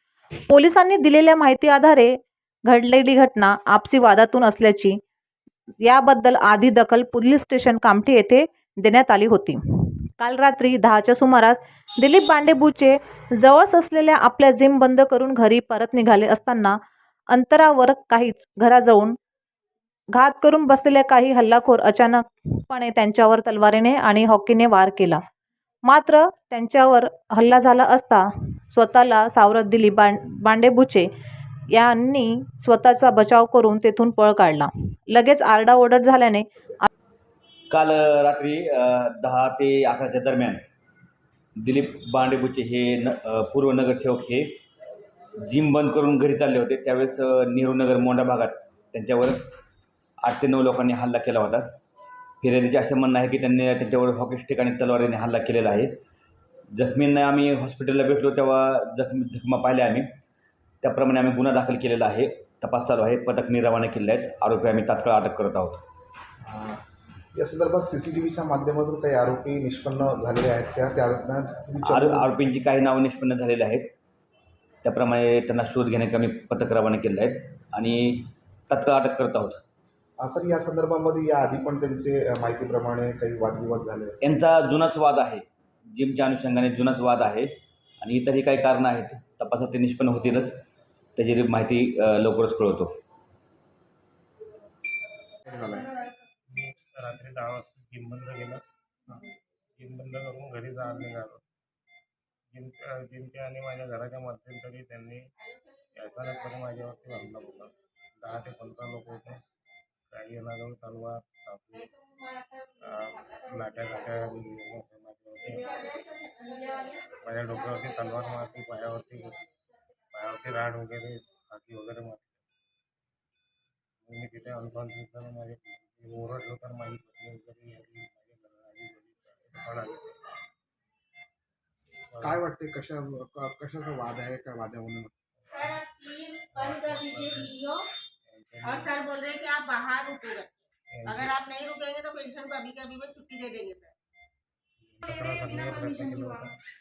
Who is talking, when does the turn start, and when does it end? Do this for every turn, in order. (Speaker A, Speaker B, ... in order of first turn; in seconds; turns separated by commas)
Speaker A: 0.5-5.0, Speaker A: 5.8-16.8, Speaker A: 17.3-19.2, Speaker A: 20.1-25.2, Speaker A: 25.9-31.1, Speaker A: 31.7-36.9, Speaker B: 37.7-40.6, Speaker B: 41.6-44.6, Speaker B: 45.5-49.5, Speaker B: 50.2-51.8, Speaker B: 52.4-55.9, Speaker B: 56.7-60.1, Speaker B: 60.8-65.8, Speaker C: 66.4-66.8, Speaker C: 67.3-72.3, Speaker B: 71.8-73.9, Speaker B: 74.8-79.6, Speaker C: 80.2-84.2, Speaker B: 84.2-90.6, Speaker B: 91.2-93.0, Speaker C: 95.5-95.9, Speaker D: 96.5-98.6, Speaker D: 99.8-101.4, Speaker D: 102.5-105.3, Speaker D: 106.0-109.4, Speaker D: 110.1-111.9, Speaker E: 111.8-113.9, Speaker D: 112.8-115.8, Speaker E: 115.5-117.0, Speaker D: 117.1-119.4, Speaker D: 120.1-122.4, Speaker D: 124.0-130.2, Speaker D: 132.1-132.4, Speaker C: 132.2-135.1, Speaker D: 135.4-135.8, Speaker E: 135.5-137.9, Speaker D: 136.5-137.6, Speaker D: 138.3-138.9, Speaker E: 138.6-143.9, Speaker D: 140.9-141.4, Speaker D: 144.9-146.6